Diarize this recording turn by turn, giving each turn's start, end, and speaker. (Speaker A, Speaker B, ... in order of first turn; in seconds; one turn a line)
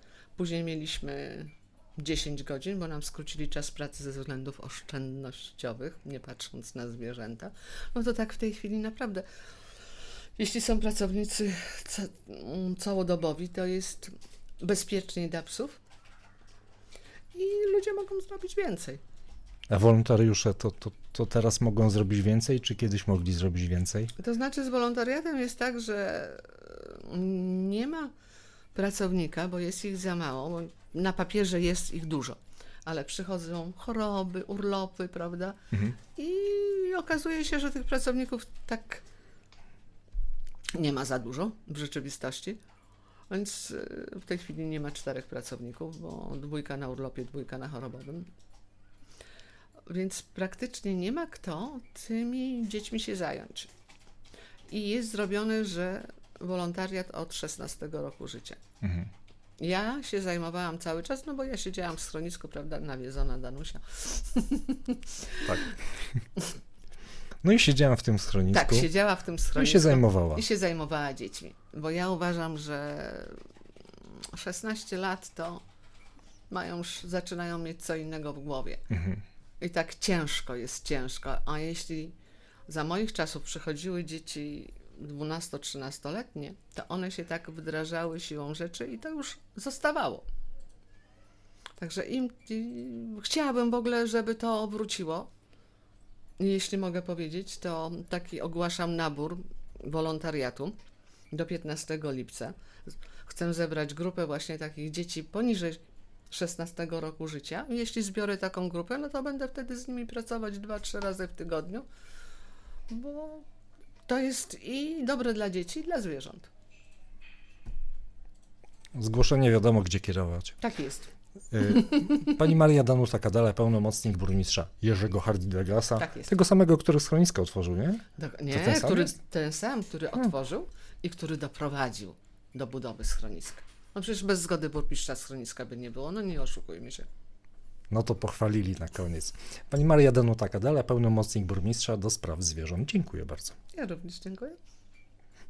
Speaker A: 0.3-9.2
Speaker A: 10.4-15.8
Speaker A: 17.3-19.0
Speaker B: 19.7-24.1
Speaker A: 24.2-28.1
Speaker A: 28.7-39.0
Speaker B: 35.7-36.0
Speaker A: 40.7-42.6
Speaker A: 43.3-48.3
Speaker A: 49.9-53.7
Speaker A: 54.7-58.6
Speaker B: 58.8-59.1
Speaker A: 59.6-65.7
Speaker B: 65.5-66.2
Speaker B: 67.4-68.9
Speaker A: 68.5-73.4
Speaker B: 69.5-70.4
Speaker A: 74.0-75.6
Speaker A: 76.5-78.8
Speaker B: 78.9-79.2
Speaker A: 79.6-82.1
Speaker A: 82.7-90.2
Speaker A: 91.8-95.3
Speaker A: 96.4-100.8
Speaker A: 101.3-111.8
Speaker A: 112.9-113.4
Speaker A: 114.1-116.5
Speaker B: 118.9-120.5
Speaker A: 120.6-121.1
Speaker B: 121.5-129.1
Speaker A: 121.8-122.2
Speaker A: 126.0-126.4
Speaker A: 128.2-137.1
Speaker B: 137.9-143.6
Speaker A: 143.7-144.6